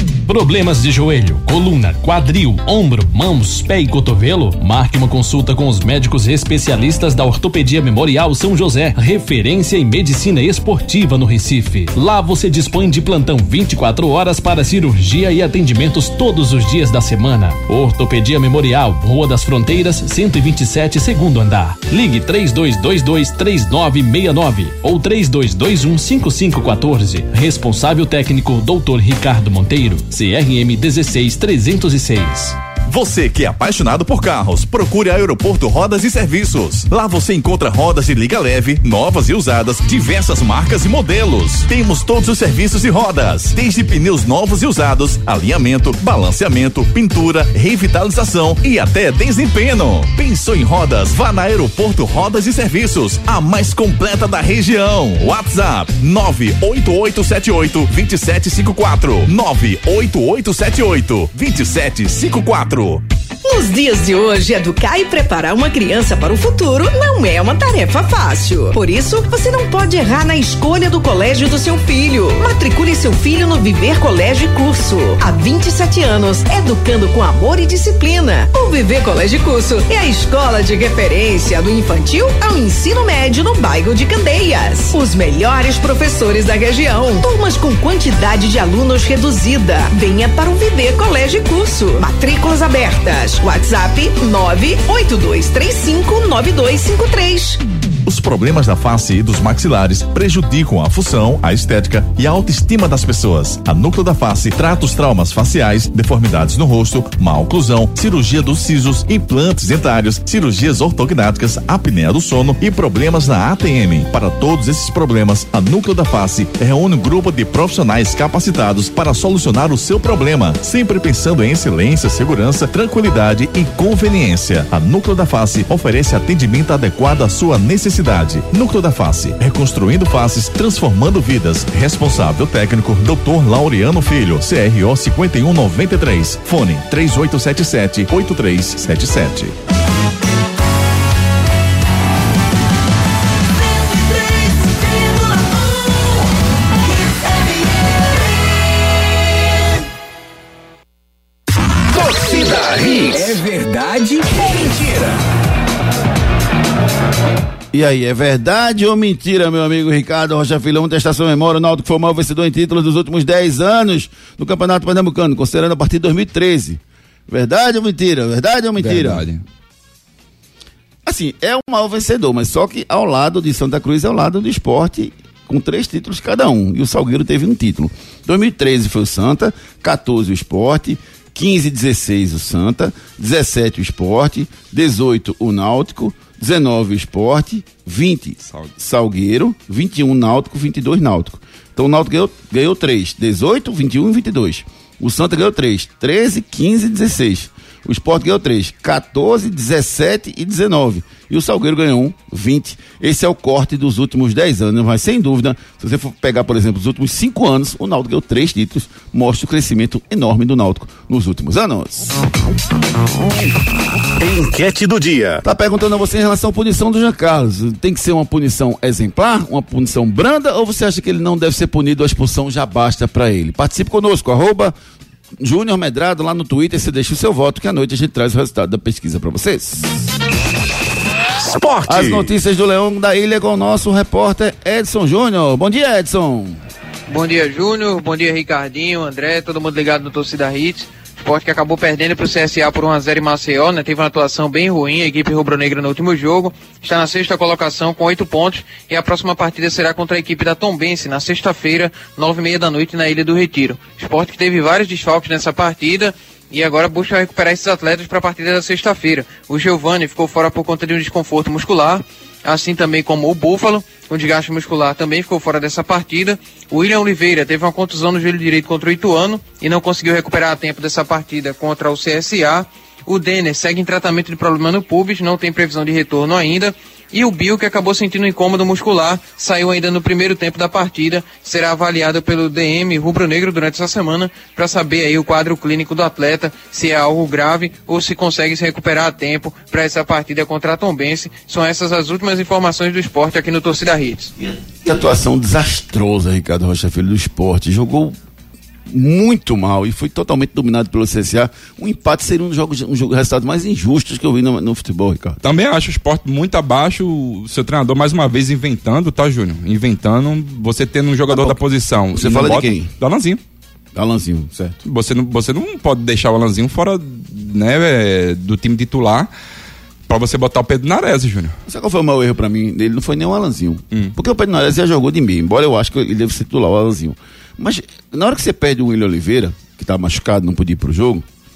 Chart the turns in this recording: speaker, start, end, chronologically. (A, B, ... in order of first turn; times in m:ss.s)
0:00.2-0:32.6 A
0:32.9-1:03.0 B
1:03.4-1:37.6 C
1:38.0-2:19.6 B
2:31.9-2:35.2 D
2:37.7-2:49.3 E
2:48.8-2:49.4 F
2:51.0-3:32.2 E
3:08.4-3:08.7 F
3:34.2-3:35.4 D
3:35.4-3:44.7 E
3:45.4-3:50.0 E
3:51.4-3:52.3 D
3:51.8-3:56.6 E
3:57.1-4:54.3 G
4:54.4-4:58.2 E
4:58.9-5:05.4 E
5:05.4-5:13.4 F
5:11.3-5:11.6 E
5:12.1-5:12.9 E
5:13.9-5:14.8 E
5:14.8-5:19.3 F
5:20.1-5:21.6 F
5:21.7-5:31.2 E